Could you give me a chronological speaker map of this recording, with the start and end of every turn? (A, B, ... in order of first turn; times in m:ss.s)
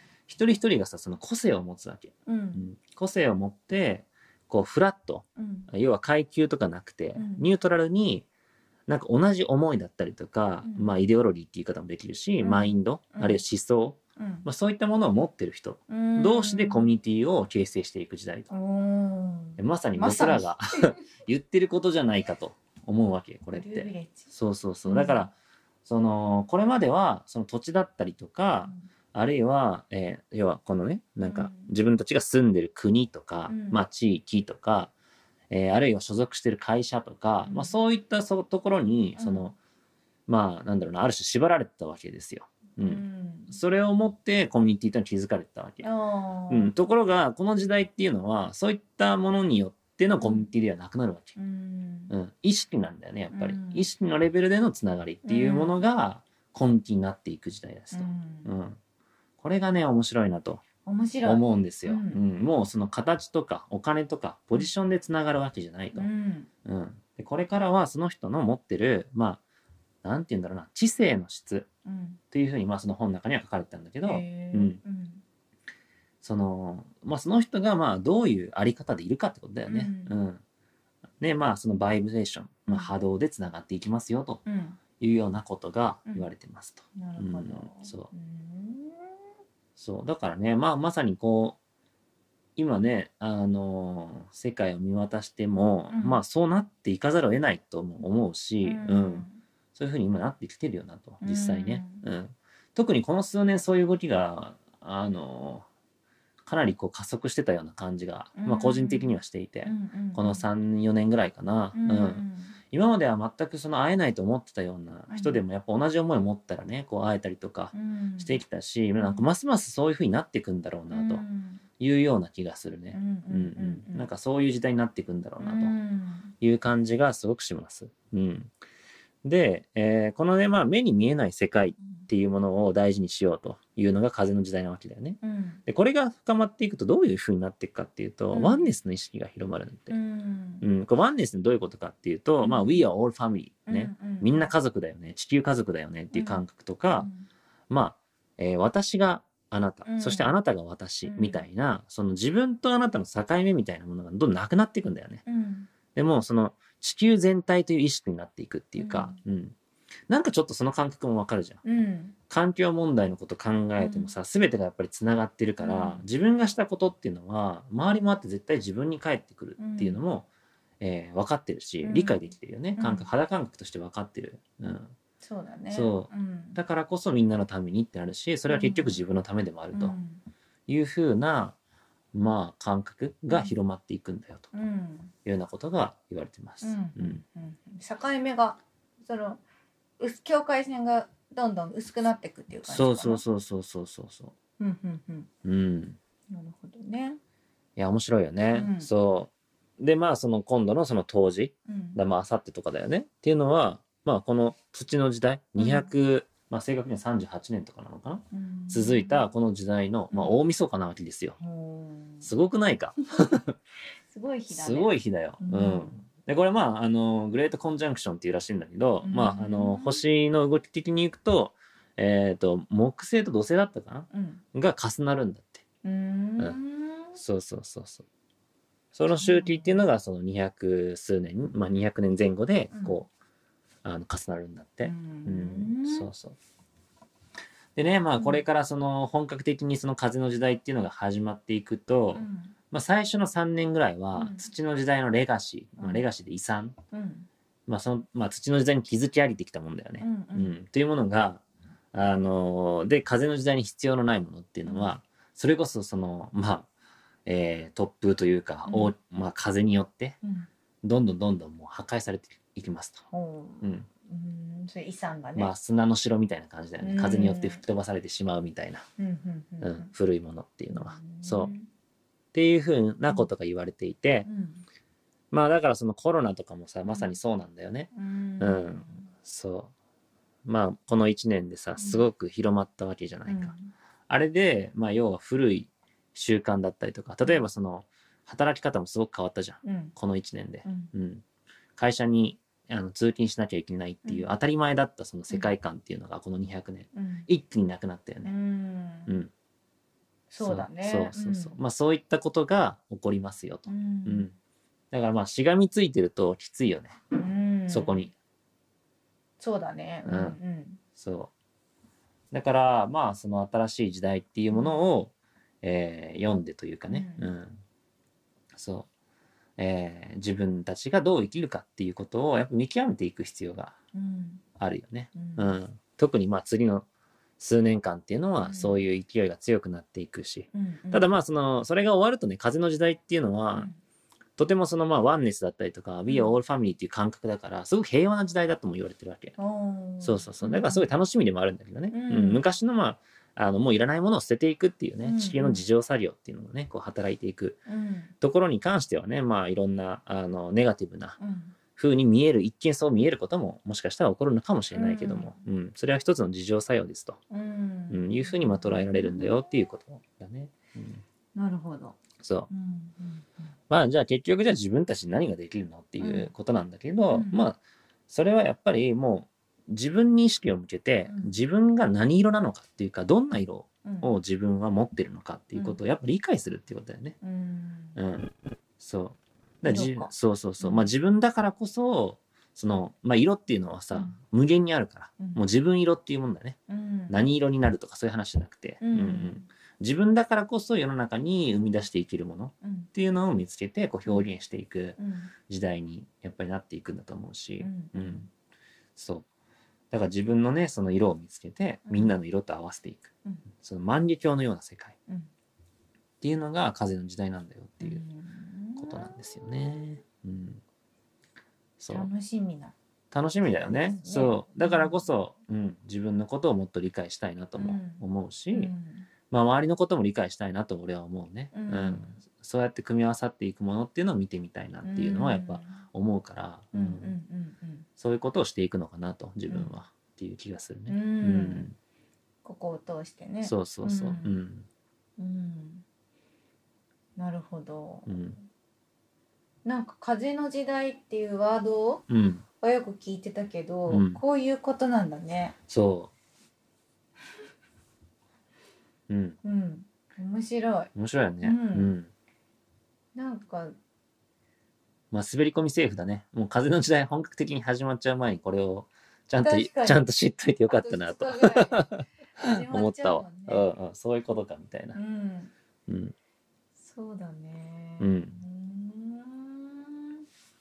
0:00.3-0:08.3 A
0:02.3-0:02.7 B
0:05.4-0:05.7 B
0:07.2-0:07.5 B
0:08.9-0:18.5 A
0:10.6-0:11.0 B
0:12.4-0:13.4 B
0:14.2-0:14.5 B
0:15.9-0:16.9 B
0:18.5-0:20.5 B
0:19.6-0:25.3 A
0:23.5-0:24.3 B
0:24.9-0:25.3 B
0:25.8-0:34.9 A
0:28.6-0:28.9 B
0:31.2-0:31.7 B
0:33.5-0:33.8 B
0:35.5-0:39.6 A
0:37.5-0:37.8 B
0:39.2-0:39.5 B
0:40.3-0:45.9 A
0:42.8-0:43.6 B
0:45.8-0:46.7 B
0:46.5-0:51.4 A
0:50.2-0:50.5 B
0:51.4-0:52.1 B
0:52.1-0:58.8 A
0:53.3-0:53.9 B
0:55.2-0:55.8 B
0:57.9-0:58.5 B
0:59.4-1:00.6 A
1:00.8-1:02.2 B
1:01.2-1:06.1 A
1:05.9-1:06.5 B
1:06.6-1:09.4 A
1:10.0-1:11.7 A
1:11.8-1:12.2 B
1:12.3-1:14.8 A
1:14.0-1:15.2 B
1:16.2-1:20.4 A
1:19.7-1:20.1 B
1:21.2-1:24.4 A
1:22.7-1:22.9 B
1:24.5-1:24.8 B
1:25.0-1:28.1 A
1:26.9-1:29.2 B
1:29.8-1:31.6 A
1:32.6-1:45.7 A
1:35.9-1:36.2 B
1:38.6-1:39.4 B
1:41.2-1:42.1 B
1:46.4-2:01.2 A
1:48.4-1:50.5 B
1:51.7-1:52.6 B
1:55.1-1:55.4 B
1:57.7-1:58.4 B
1:59.0-1:59.3 B
2:00.9-2:01.6 B
2:01.8-2:05.8 A
2:02.9-2:04.1 B
2:05.4-2:06.3 B
2:06.4-2:08.6 A
2:09.2-2:20.0 A
2:15.2-2:15.6 B
2:18.3-2:18.7 B
2:19.9-2:20.7 B
2:20.6-2:27.1 A
2:22.4-2:22.9 B
2:23.7-2:24.5 B
2:26.1-2:27.3 B
2:27.7-2:35.2 A
2:29.9-2:30.3 B
2:31.1-2:31.4 B
2:35.3-2:35.7 B
2:35.9-2:39.6 A
2:38.8-2:39.2 B
2:40.1-2:41.6 A
2:41.6-2:42.2 B
2:42.3-2:50.3 A
2:43.8-2:44.1 B
2:45.6-2:46.0 B
2:49.6-2:50.0 B
2:50.8-2:54.9 A
2:51.8-2:53.1 B
2:55.2-2:56.6 B
2:55.7-3:00.0 A
2:58.5-2:59.0 B
2:59.7-3:00.2 B
3:00.7-3:01.6 A
3:02.1-3:04.5 A
3:03.3-3:03.6 B
3:04.5-3:05.1 B
3:05.2-3:07.2 A
3:06.6-3:09.4 B
3:10.0-3:13.2 B
3:12.6-3:14.3 A
3:14.6-3:15.3 B
3:15.4-3:16.0 A
3:16.3-3:17.2 B
3:17.8-3:31.4 A
3:18.5-3:18.9 B
3:21.7-3:22.0 B
3:25.6-3:25.9 B
3:28.3-3:29.3 B
3:30.1-3:30.4 B
3:31.4-3:32.3 B
3:32.2-3:33.6 A
3:34.1-3:36.0 B
3:34.5-3:45.6 A
3:39.0-3:40.0 B
3:44.1-3:44.4 B
3:45.8-3:47.2 B
3:47.2-3:48.0 A
3:48.9-3:53.1 A
3:49.1-3:49.8 B
3:52.7-3:53.0 B
3:53.8-3:56.4 A
3:54.8-3:56.1 B
3:57.8-4:06.8 A
3:58.2-3:58.4 B
4:02.1-4:02.5 B
4:04.2-4:04.5 B
4:05.8-4:06.0 B
4:06.9-4:07.3 B
4:07.7-4:16.7 A
4:10.0-4:10.6 B
4:14.7-4:14.9 B
4:17.3-4:20.2 A
4:18.7-4:18.9 B
4:20.2-4:20.5 B
4:20.8-4:23.0 A
4:23.1-4:25.5 B
4:23.6-4:23.9 A
4:25.4-4:28.8 A
4:26.8-4:27.6 B
4:29.0-4:29.9 B
4:29.6-4:31.5 A
4:30.7-4:31.7 B
4:32.3-4:34.3 A
4:34.2-4:34.6 B
4:35.3-4:39.7 A
4:36.9-4:37.2 B
4:37.9-4:39.1 B
4:40.4-4:43.6 A
4:41.8-4:42.1 B
4:43.3-4:43.7 B
4:44.1-4:51.2 A
4:49.6-4:50.0 B
4:50.6-4:50.9 B
4:51.8-4:58.3 A
4:56.9-4:57.3 B
4:58.2-4:59.1 B
5:00.3-5:01.6 B
5:00.4-5:04.3 A
5:03.7-5:04.3 B
5:04.9-5:07.0 A
5:07.1-5:08.1 B
5:07.7-5:08.1 A
5:09.4-5:10.8 B
5:10.0-5:10.4 A
5:11.0-5:11.3 A
5:12.3-5:17.6 A
5:14.5-5:14.8 B
5:16.9-5:17.3 B
5:18.5-5:18.9 A
5:19.6-5:23.8 A
5:23.9-5:24.4 B
5:24.6-5:26.9 A
5:25.2-5:25.6 B
5:27.4-5:33.7 A
5:28.4-5:28.8 B
5:30.5-5:31.1 B
5:34.4-5:39.4 A
5:36.1-5:36.3 B
5:39.4-5:40.9 B
5:40.0-5:47.6 A
5:41.9-5:42.4 B
5:45.0-5:45.6 B
5:47.7-5:48.1 B
5:48.2-5:51.2 A
5:51.2-5:51.6 B
5:51.7-5:57.2 A
5:54.7-5:55.4 B
5:57.3-5:59.4 B
5:57.9-6:01.0 A
6:01.4-6:02.0 B
6:02.2-6:02.5 A
6:02.5-6:03.5 B
6:03.7-6:17.2 A
6:06.0-6:06.3 B
6:07.1-6:07.4 B
6:11.1-6:11.4 B
6:13.8-6:14.1 B
6:15.6-6:15.8 B
6:17.2-6:18.0 B
6:18.0-6:26.6 A
6:19.6-6:20.9 B
6:23.9-6:24.2 B
6:26.7-6:27.2 B
6:27.1-6:38.3 A
6:28.8-6:29.4 B
6:32.6-6:32.9 B
6:35.0-6:35.3 B
6:37.6-6:38.3 B
6:39.0-6:39.3 A
6:39.9-6:45.0 A
6:41.9-6:42.2 B
6:46.2-6:48.0 A
6:47.8-6:49.1 B
6:48.8-6:50.6 A
6:51.8-6:52.1 A
6:51.9-6:52.7 B
6:53.1-6:58.7 A
6:53.4-6:55.1 B
6:57.6-6:59.1 B
6:59.3-7:07.2 A
7:01.5-7:02.2 B
7:04.8-7:05.8 B
7:06.7-7:07.9 B
7:08.0-7:11.8 A
7:09.5-7:09.8 B
7:10.9-7:11.7 B
7:12.4-7:14.4 B
7:13.4-7:14.7 A
7:15.2-7:15.8 B
7:17.2-7:18.1 B
7:18.1-7:18.4 A
7:19.6-7:22.0 B
7:22.1-7:22.4 A
7:22.6-7:25.6 B
7:23.9-7:24.2 A
7:25.7-7:26.1 A
7:29.1-7:29.4 A
7:29.4-7:31.9 B
7:31.0-7:32.1 A
7:33.2-7:33.8 B
7:35.1-7:45.0 A
7:39.4-7:40.0 B
7:40.7-7:43.7 B
7:44.9-7:45.5 B
7:45.9-7:46.1 A
7:46.8-7:50.2 B
7:48.0-7:48.4 A